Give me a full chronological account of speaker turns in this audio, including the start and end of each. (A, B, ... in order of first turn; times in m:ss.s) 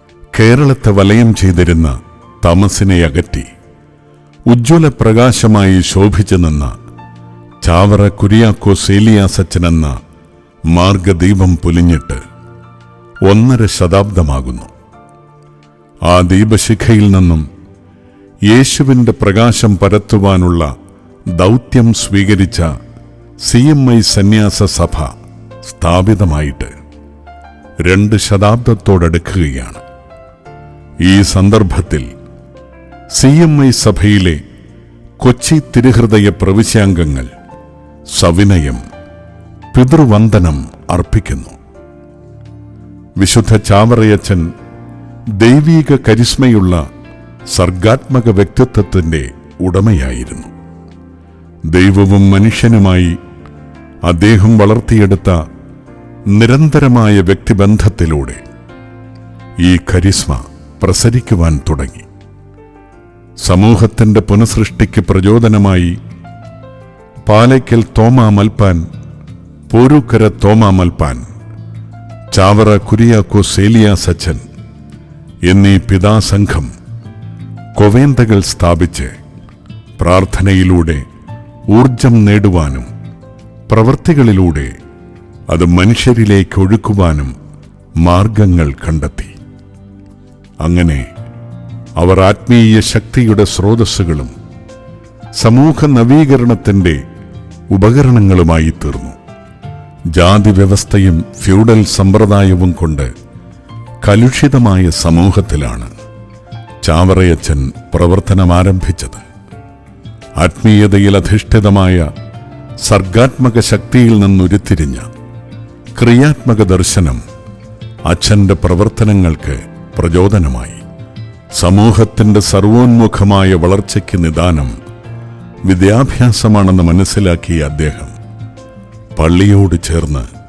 0:00.4-0:03.5 A
0:04.5-0:06.7 A
0:07.6-0:09.9 A
0:10.7-0:12.2 A
0:13.3-0:14.7 A
0:16.1-0:17.5 A
0:18.5-0:20.7 A
0:21.4-0:22.7 A
0:23.4-0:25.1 A
0:25.7-0:26.7 A
0:27.9-0:29.8 A
0:31.1-0:32.1 A
0:33.2-0:34.4 A
0:35.2-0:37.3 A
0:38.2-0:38.8 A
0:39.7-0:41.6 A
0:43.2-0:44.5 A
0:45.4-0:46.8 A
0:47.5-0:50.5 A
0:51.7-0:53.2 A
0:54.1-0:55.4 A
0:56.4-0:58.4 A
0:59.6-1:02.1 A
1:03.4-1:06.0 A
1:07.3-1:08.8 A
1:09.7-1:11.2 A
1:12.3-1:14.4 A
1:15.5-1:16.7 A
1:17.8-1:19.1 A
1:20.0-1:21.0 A
1:21.7-1:22.9 A
1:23.7-1:24.7 A
1:25.5-1:27.4 A
1:28.0-1:29.3 A
1:30.6-1:31.1 A
1:32.0-1:34.3 A
1:35.4-1:37.0 A
1:37.7-1:39.2 A
1:40.2-1:43.1 A
1:44.0-1:45.9 A
1:46.8-1:49.2 A
1:50.4-1:52.1 A
1:52.8-1:55.1 A
1:56.0-1:57.2 A
1:58.1-2:00.8 A
2:01.6-2:04.7 A
2:05.7-2:08.1 A
2:09.2-2:10.3 A